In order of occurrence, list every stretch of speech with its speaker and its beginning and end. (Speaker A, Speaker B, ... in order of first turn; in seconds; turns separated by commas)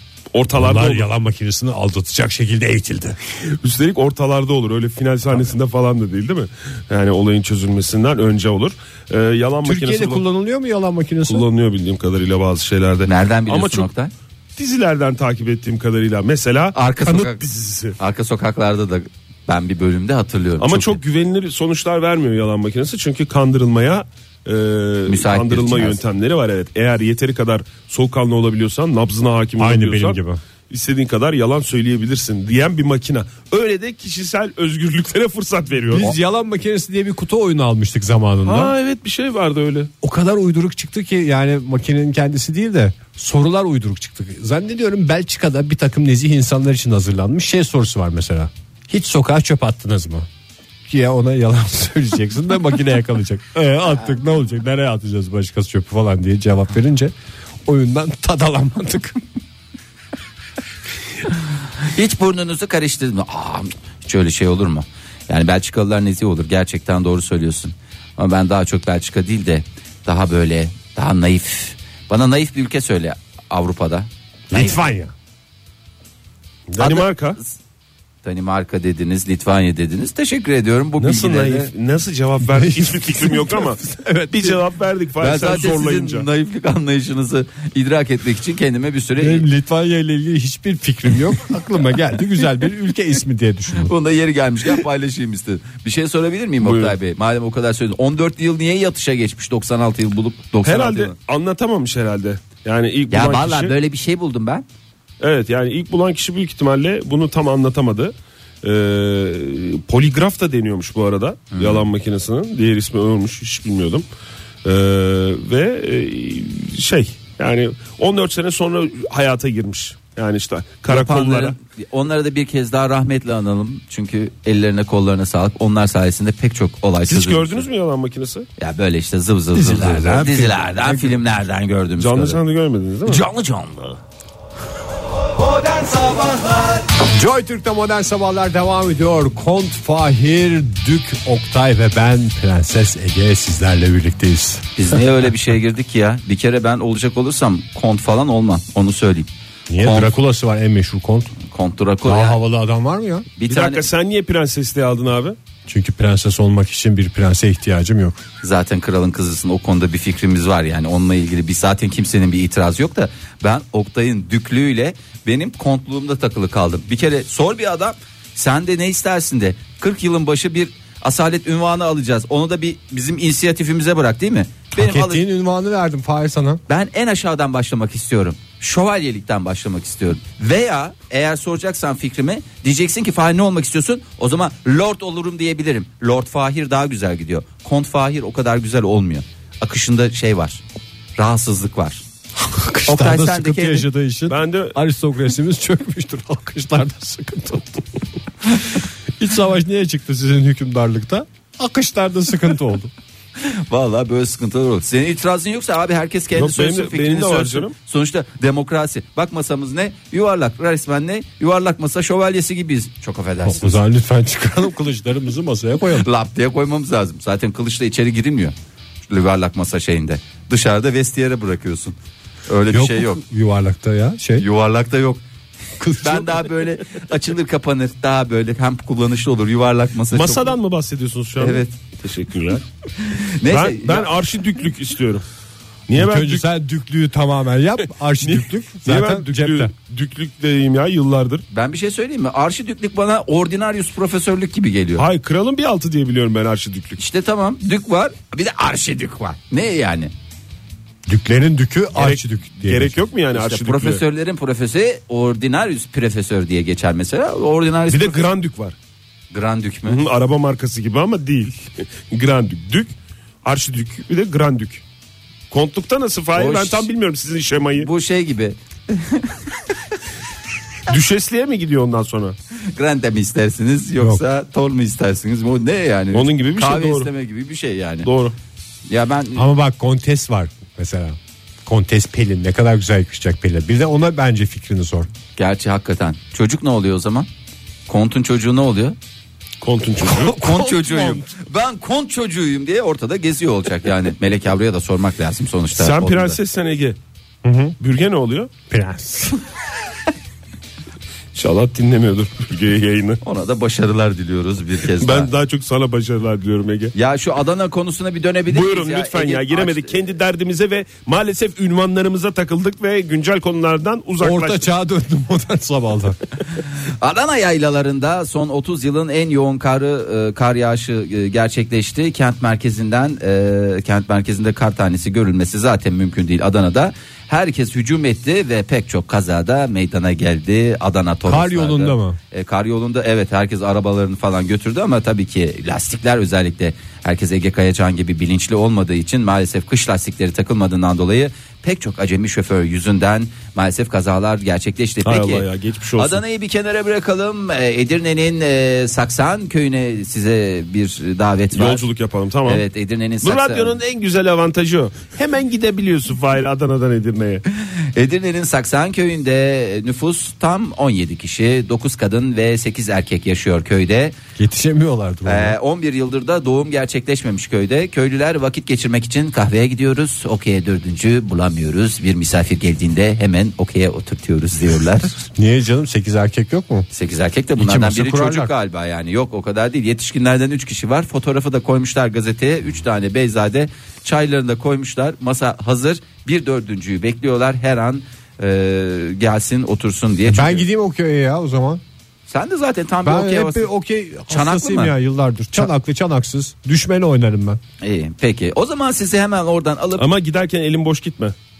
Speaker A: 0.3-1.1, Speaker B: 0.5-3.2, Speaker A: 3.5-10.2, Speaker B: 9.6-11.4, Speaker A: 11.3-13.9, Speaker C: 13.0-14.1, Speaker A: 14.6-17.9, Speaker C: 16.7-17.4, Speaker C: 18.0-21.0, Speaker A: 20.6-30.2, Speaker C: 25.1-26.0, Speaker B: 29.6-30.4, Speaker A: 30.7-36.1, Speaker B: 35.9-38.7, Speaker A: 38.4-39.9, Speaker B: 40.0-50.3, Speaker B: 50.9-57.1, Speaker B: 57.6-59.2, Speaker C: 61.8-74.8, Speaker B: 74.5-75.1, Speaker A: 76.7-77.4, Speaker C: 76.8-77.6, Speaker C: 78.2-81.7, Speaker A: 81.0-86.2, Speaker B: 82.5-84.6, Speaker C: 85.2-89.5, Speaker B: 89.2-93.9, Speaker C: 93.8-101.1, Speaker A: 96.6-97.0, Speaker A: 100.6-103.7, Speaker C: 103.1-104.6, Speaker A: 105.2-114.0, Speaker C: 111.5-111.9, Speaker A: 114.6-121.5, Speaker C: 120.9-127.7, Speaker A: 127.0-128.5, Speaker C: 128.6-132.4, Speaker B: 129.5-131.2, Speaker A: 132.0-133.2, Speaker C: 133.0-134.0, Speaker C: 135.7-136.5, Speaker B: 137.0-145.0, Speaker C: 144.8-150.1, Speaker B: 149.7-151.3, Speaker C: 151.5-152.4, Speaker B: 152.0-153.3, Speaker C: 153.4-153.8, Speaker A: 153.5-155.3, Speaker B: 155.7-158.2, Speaker C: 158.4-175.2, Speaker B: 174.7-176.6, Speaker C: 176.7-190.6, Speaker C: 191.2-192.0, Speaker B: 192.4-202.9, Speaker C: 192.9-193.9, Speaker A: 194.3-194.7, Speaker C: 203.4-213.8, Speaker A: 206.3-207.7, Speaker B: 213.4-216.1, Speaker C: 215.9-218.5, Speaker C: 219.1-221.9, Speaker C: 222.5-223.2, Speaker B: 222.7-224.5, Speaker C: 224.4-225.2, Speaker B: 225.8-226.5, Speaker C: 226.0-230.6, Speaker A: 230.1-232.6, Speaker C: 231.4-231.8, Speaker C: 233.0-234.1, Speaker A: 233.5-235.2, Speaker A: 235.9-236.4, Speaker B: 235.9-239.7, Speaker A: 238.2-241.4, Speaker C: 241.5-245.0, Speaker A: 245.0-247.0, Speaker C: 247.0-250.1, Speaker B: 251.1-253.0, Speaker A: 251.9-254.0, Speaker C: 253.3-258.2, Speaker A: 257.9-258.7, Speaker C: 259.3-260.0, Speaker A: 259.9-262.9, Speaker A: 263.4-264.8, Speaker A: 265.5-267.9, Speaker C: 266.3-266.9, Speaker C: 267.8-269.7, Speaker A: 270.9-272.4, Speaker C: 272.7-278.1, Speaker A: 276.1-277.1, Speaker A: 278.0-278.3, Speaker C: 278.9-279.5, Speaker B: 279.3-285.1, Speaker C: 285.4-287.3, Speaker C: 287.9-288.9, Speaker A: 289.6-290.3, Speaker C: 290.1-296.4, Speaker B: 290.2-291.2, Speaker A: 295.8-297.0, Speaker B: 297.4-297.7, Speaker A: 297.8-298.5, Speaker B: 298.7-299.4, Speaker A: 301.3-303.2, Speaker C: 303.2-305.3, Speaker A: 305.0-306.9, Speaker C: 306.9-310.0, Speaker A: 308.5-314.6, Speaker B: 314.2-316.2, Speaker C: 316.8-351.8, Speaker B: 331.2-332.2, Speaker A: 345.0-346.2, Speaker A: 351.5-352.6, Speaker C: 352.4-353.8, Speaker A: 353.2-357.4, Speaker C: 357.7-364.2, Speaker B: 364.4-365.6, Speaker C: 365.2-375.2, Speaker B: 375.4-376.9, Speaker C: 376.9-390.6, Speaker B: 377.6-378.5, Speaker B: 390.2-391.8, Speaker C: 392.3-393.7, Speaker B: 393.0-397.6, Speaker C: 394.3-394.9, Speaker C: 397.8-400.1, Speaker A: 400.0-401.3